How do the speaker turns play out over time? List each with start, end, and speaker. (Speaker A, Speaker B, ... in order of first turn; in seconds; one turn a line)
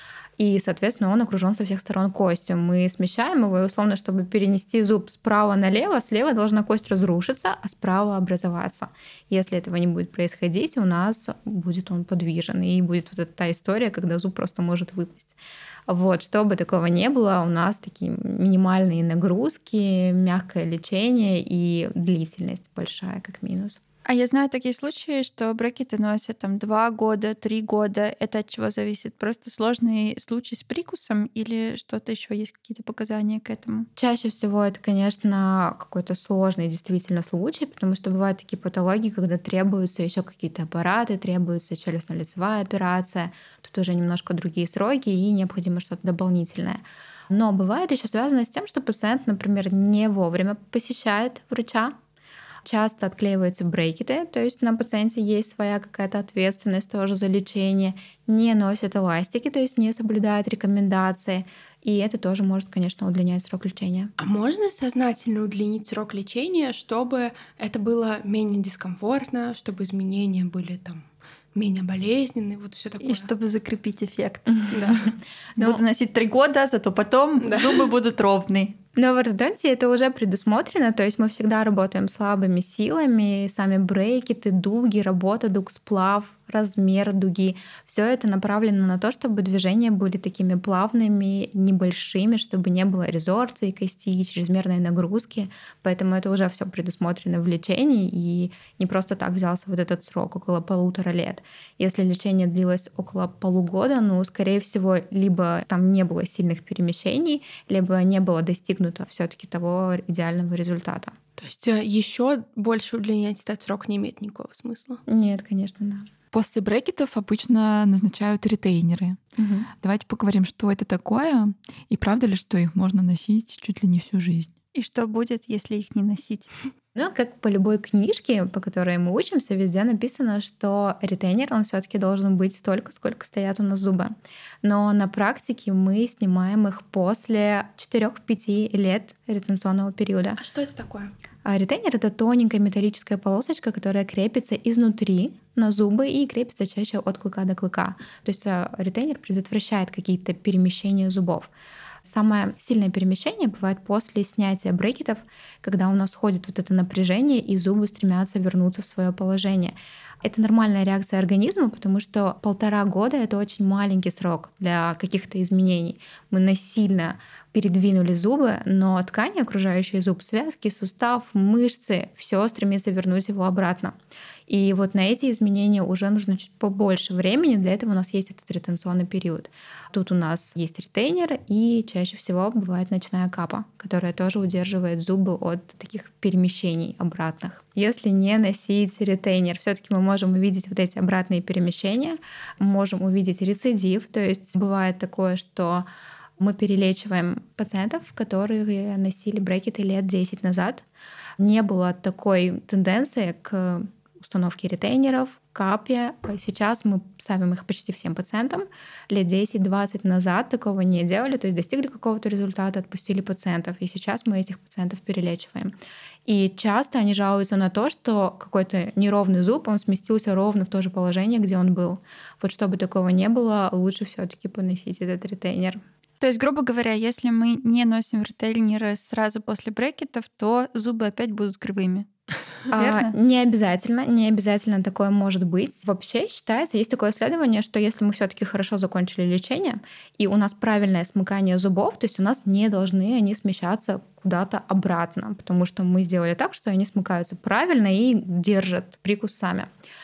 Speaker A: 0.4-15.3
Speaker A: 15.9-23.8
Speaker B: 24.1-33.9
Speaker A: 34.0-52.0
Speaker A: 52.6-64.1
Speaker C: 64.2-73.3
Speaker B: 73.0-75.0
Speaker C: 74.7-75.1
Speaker A: 75.5-75.8
Speaker B: 75.6-78.8
Speaker C: 77.4-77.7
Speaker A: 79.0-111.2
Speaker C: 111.4-115.0
Speaker A: 115.0-116.1
Speaker D: 116.3-119.2
Speaker A: 119.4-119.7
Speaker D: 119.8-124.5
Speaker B: 124.7-126.5
Speaker A: 126.9-140.4
Speaker C: 140.4-141.1
Speaker A: 141.4-151.5
Speaker A: 152.0-173.9
Speaker A: 174.5-195.8
Speaker A: 196.4-200.8
Speaker A: 201.4-215.7
Speaker A: 216.2-225.8
Speaker B: 226.2-232.1
Speaker B: 232.7-233.1
Speaker A: 232.7-249.7